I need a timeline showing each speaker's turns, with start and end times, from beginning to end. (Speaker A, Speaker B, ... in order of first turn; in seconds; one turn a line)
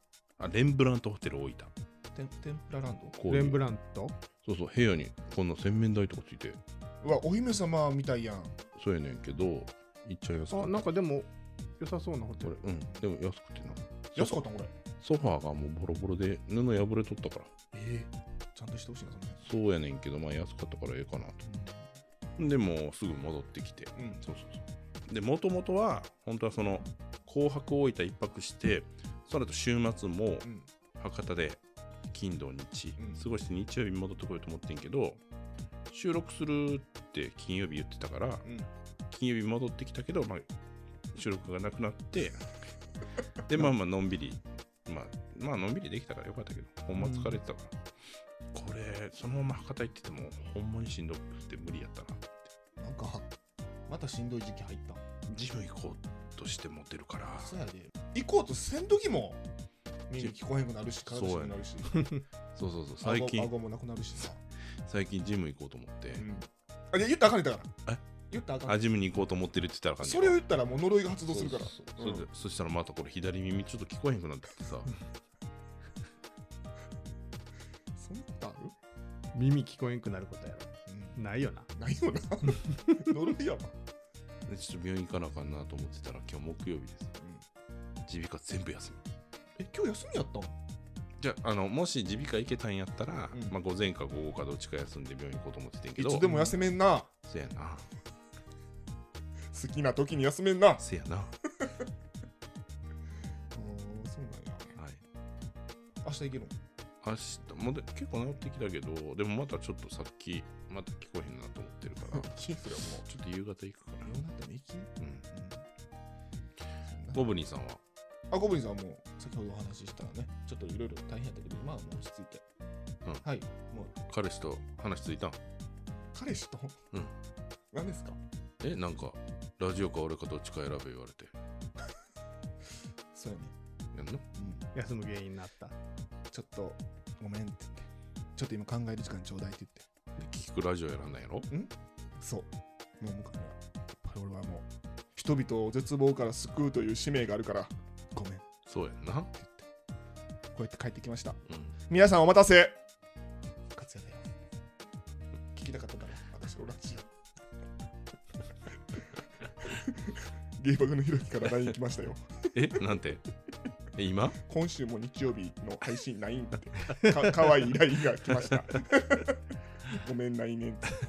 Speaker A: 0.4-1.7
Speaker B: 2.1-3.2
Speaker A: 3.2-3.6
Speaker C: 3.3-4.2
Speaker A: 4.4-6.6
Speaker B: 7.0-8.6
Speaker A: 8.8-10.9
Speaker C: 10.5-12.6
Speaker A: 12.4-14.4
Speaker B: 14.2-14.7
Speaker A: 15.0-17.5
Speaker B: 17.7-19.4
Speaker A: 19.4-21.5
Speaker B: 21.5-21.8
Speaker A: 22.4-30.5
Speaker B: 24.0-24.2
Speaker A: 31.0-35.2
Speaker B: 33.0-33.2
Speaker A: 35.9-38.5
Speaker A: 39.1-40.5
Speaker A: 41.1-42.6
Speaker A: 43.5-47.8
Speaker C: 47.0-47.4
Speaker A: 48.5-52.3
Speaker B: 52.8-53.3
Speaker B: 53.9-55.0
Speaker A: 55.3-57.5
Speaker B: 57.4-59.4
Speaker B: 60.1-62.1
Speaker A: 61.1-61.6
Speaker C: 61.9-62.2
Speaker A: 62.5-63.5
Speaker B: 63.0-64.4
Speaker A: 64.9-66.2
Speaker B: 66.2-67.8
Speaker B: 68.3-68.8
Speaker A: 68.7-70.4
Speaker B: 70.0-72.3
Speaker A: 71.3-74.9
Speaker B: 78.0-78.8
Speaker C: 79.3-81.7
Speaker B: 80.9-81.2
Speaker B: 81.7-83.8
Speaker C: 82.5-83.1
Speaker A: 84.5-87.1
Speaker B: 87.2-87.4
Speaker A: 88.1-89.0
Speaker B: 89.6-90.5
Speaker A: 91.2-96.3
Speaker B: 96.0-97.1
Speaker A: 97.2-97.9
Speaker B: 99.5-100.8
Speaker A: 100.8-101.3
Speaker B: 103.5-104.7
Speaker B: 106.0-106.6
Speaker A: 107.0-112.3
Speaker B: 112.0-113.1
Speaker A: 113.1-114.2
Speaker B: 114.0-115.6
Speaker B: 116.8-117.2
Speaker A: 117.1-117.8
Speaker B: 118.3-122.5
Speaker B: 123.2-123.9
Speaker A: 124.1-125.4
Speaker B: 126.1-126.8
Speaker B: 127.7-128.2
Speaker A: 128.6-131.3
Speaker B: 133.1-133.6
Speaker A: 133.9-134.2
Speaker B: 134.3-134.7
Speaker C: 134.7-135.8
Speaker B: 136.3-139.9
Speaker A: 140.2-141.5
Speaker B: 141.5-148.5
Speaker A: 148.7-149.3
Speaker B: 149.4-149.7
Speaker B: 150.5-152.8
Speaker B: 153.7-154.3
Speaker B: 155.5-157.1
Speaker B: 159.6-162.8
Speaker A: 162.5-163.2
Speaker A: 163.9-164.4
Speaker B: 164.4-170.9